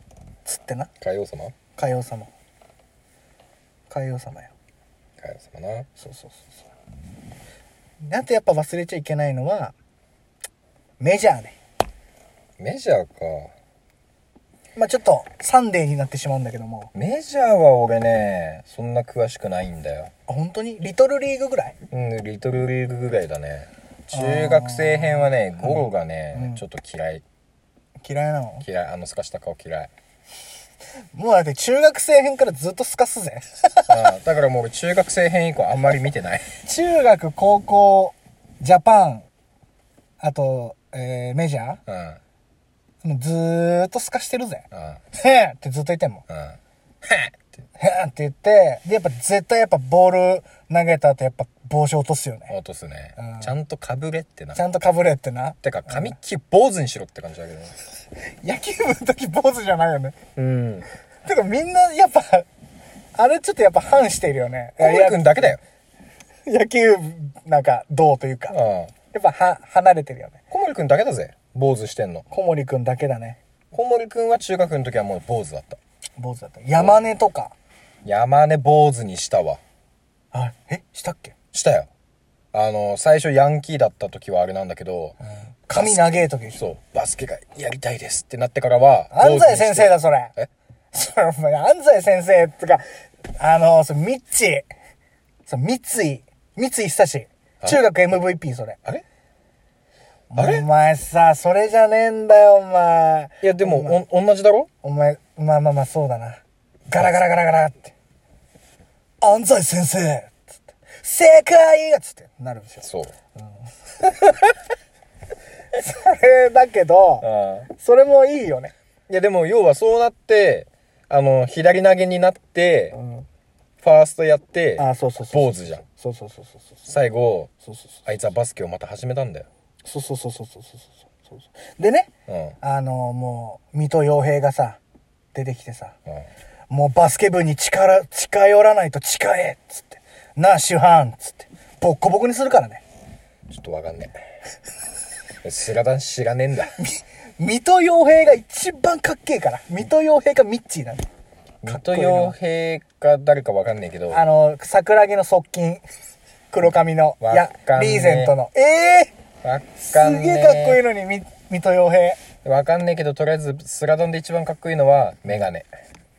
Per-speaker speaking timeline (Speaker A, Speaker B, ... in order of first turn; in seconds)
Speaker A: 0.4-0.9, 1.7-2.3, 3.9-4.5, 6.0-6.6, 8.0-9.7, 11.0-11.6, 14.7-16.9, 20.3-21.7, 24.1-26.6, 28.0-28.6, 31.1-33.9, 36.6-39.3, 40.2-41.8, 43.0-46.2, 47.8-52.5, 53.2-53.5, 54.5-56.1, 58.4-60.1, 61.2-62.5, 63.1-65.6, 66.5-68.5, 69.1-70.4, 72.3-73.4, 76.2-77.5, 80.3-81.3, 85.7-86.6, 89.1-90.3, 90.9-92.8, 93.4-94.7, 95.5-98.8, 100.3-104.0, 104.8-107.9, 109.2-113.7, 115.7-118.7, 122.9-123.3, 124.8-126.9, 127.6-128.0, 129.8-132.1, 132.6-134.8, 135.3-135.9, 136.7-142.8, 146.8-151.0, 151.7-152.3, 154.1-155.8, 156.5-159.1, 159.8-162.2
Speaker B: 1.0-1.5, 5.2-5.9, 12.6-13.5, 16.9-20.1, 21.9-27.2, 28.6-29.9, 33.9-36.5, 41.9-42.2, 44.7-45.0, 46.3-47.4, 52.5-54.6, 55.6-57.7, 60.4-60.9, 64.8-65.6, 68.5-68.9, 70.5-72.2, 73.7-75.8, 76.8-77.0, 78.0-79.6, 81.5-81.9, 82.5-85.2, 85.7-90.5, 100.3-100.7, 103.4-104.7, 112.8-113.1, 117.2-117.7, 119.1-123.0, 123.8-125.8, 126.8-127.5, 128.1-129.5, 132.3-132.6, 143.5-144.2, 145.4-146.7, 151.6-154.2, 157.2-158.3, 159.4-160.8, 162.4-165.7